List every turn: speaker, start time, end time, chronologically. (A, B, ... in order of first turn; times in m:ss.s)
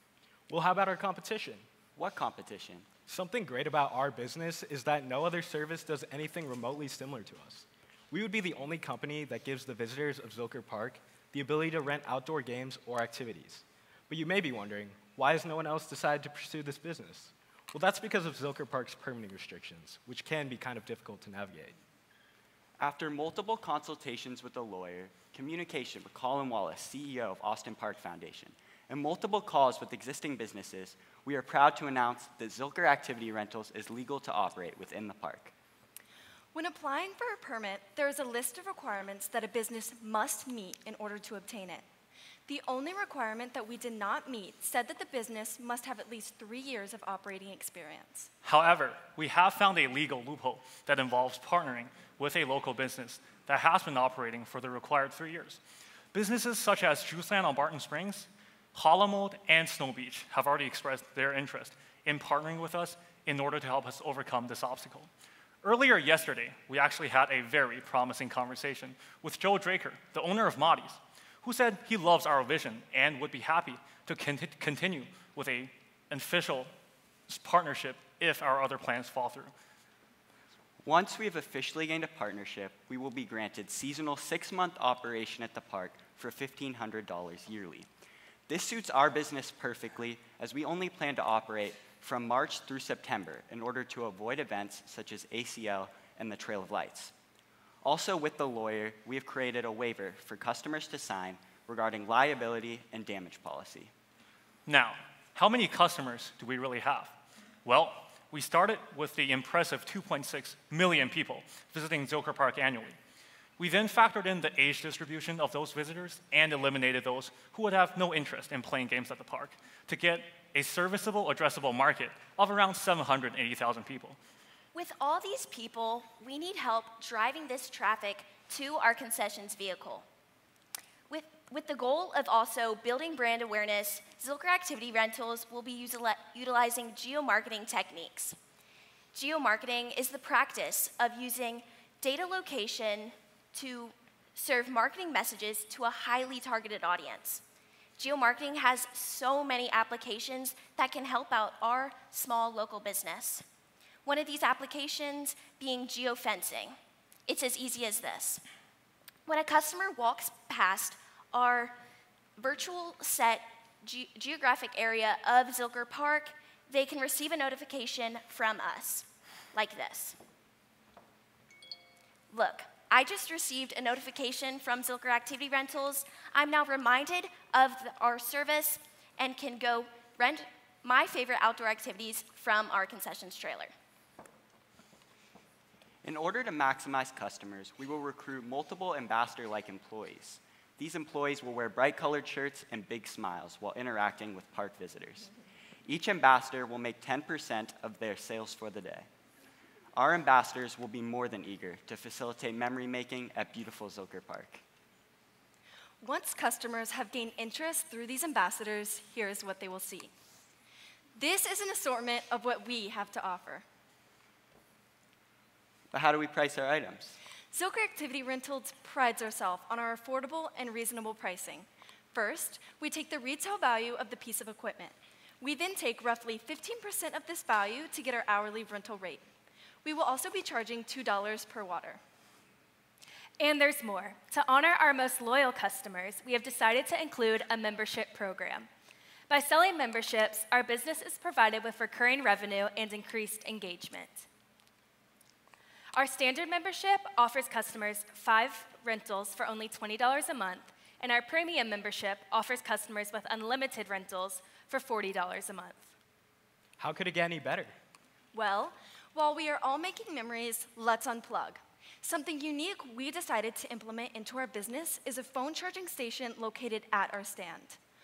0:00.5-0:01.6 A
0:02.0-0:02.9 B
0:03.1-0:21.8 A
0:22.8-0:35.5 B
0:36.5-0:41.8 C
0:42.5-0:48.3 C
0:48.4-0:55.6 D
0:56.1-1:05.1 D
1:05.6-1:16.7 D
1:17.3-1:19.5 D
1:20.8-1:27.9 B
1:28.5-1:37.1 B
1:37.8-1:43.9 B
1:44.6-1:53.0 D
1:53.6-2:04.2 D
2:04.7-2:10.0 E
2:11.1-2:18.3 E
2:19.1-2:27.3 E
2:28.0-2:33.4 E
2:34.0-2:36.7 E
2:37.3-2:38.4 E
2:39.3-2:41.7 E
2:42.4-2:49.0 E
2:49.5-2:50.1 E
2:52.3-3:03.6 E
3:06.0-3:15.3 B
3:15.9-3:19.1 B
3:19.9-3:24.6 B
3:26.0-3:30.1 C
3:31.2-3:33.6 C
3:35.9-3:37.1 B
3:37.5-3:49.2 C
3:49.8-3:52.0 C
3:53.4-3:58.7 F
3:59.3-4:04.2 F
4:05.9-4:15.9 F
4:16.8-4:17.7 A
4:18.3-4:27.8 C